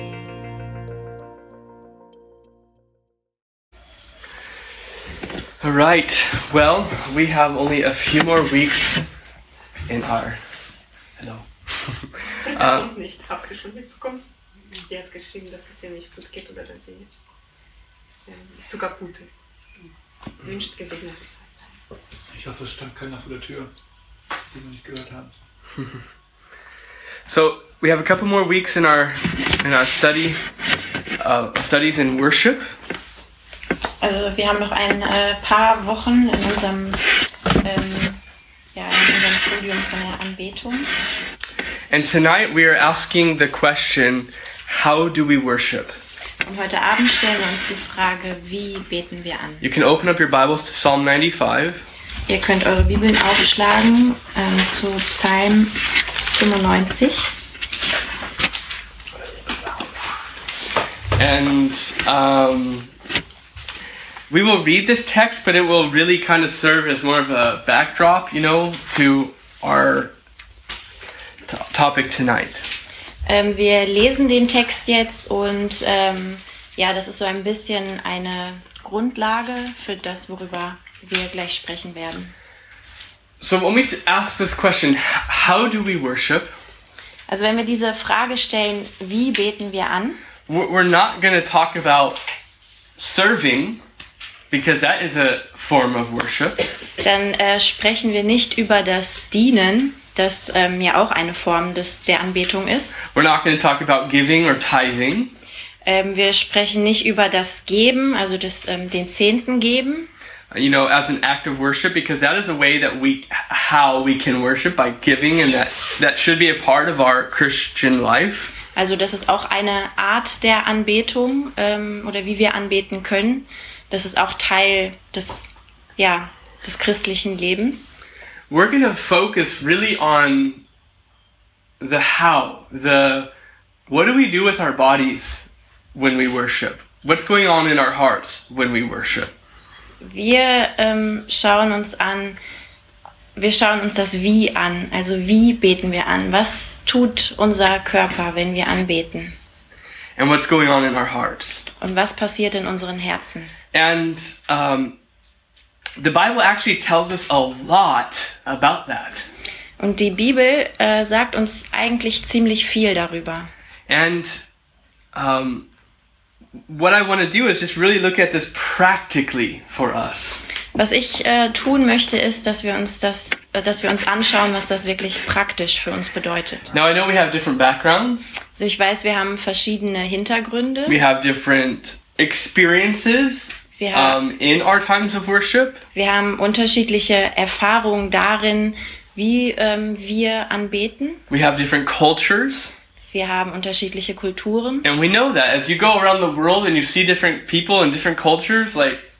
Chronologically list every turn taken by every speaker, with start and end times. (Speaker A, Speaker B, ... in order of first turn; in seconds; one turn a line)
Speaker A: 5.6-9.0
Speaker A: 9.9-10.4
Speaker A: 11.2-13.0
Speaker B: 13.0-14.2
Speaker B: 14.8-17.1
Speaker B: 18.3-19.3
Speaker B: 20.5-21.4
Speaker C: 22.4-23.7
Speaker C: 24.5-25.3
Speaker A: 27.2-30.4
Speaker A: 31.2-32.7
Speaker D: 34.0-37.0
Speaker D: 37.6-38.2
Speaker D: 38.7-40.9
Speaker A: 41.9-46.0
Speaker D: 46.4-49.7
Speaker A: 49.6-51.9
Speaker D: 52.3-55.8
Speaker D: 56.3-57.3
Speaker A: 61.1-62.9
Speaker A: 64.3-70.1
Speaker A: 71.5-72.6
Speaker D: 73.2-82.3
Speaker A: 83.4-86.5
Speaker D: 87.3-90.2
Speaker A: 90.5-92.2
Speaker A: 93.0-93.8
Speaker A: 94.5-96.6
Speaker D: 97.0-103.0
Speaker A: 103.0-105.3
Speaker D: 105.8-110.1
Speaker A: 110.5-118.5
Speaker D: 118.7-128.0
Speaker A: 128.5-130.6
Speaker A: 131.8-133.3
Speaker A: 133.9-139.3
Speaker D: 140.0-142.4
Speaker D: 143.3-149.3
Speaker A: 150.2-151.6
Speaker D: 151.8-153.5
Speaker A: 153.7-155.0
Speaker A: 156.0-159.3
Speaker D: 159.8-163.5
Speaker A: 163.9-164.4
Speaker A: 165.1-165.7
Speaker A: 166.7-170.4
Speaker D: 170.7-176.7
Speaker A: 176.7-178.4
Speaker D: 178.5-181.0
Speaker A: 180.8-185.8
Speaker D: 183.8-184.2
Speaker D: 185.9-191.2
Speaker A: 191.3-192.7
Speaker D: 193.1-194.9
Speaker A: 194.8-199.0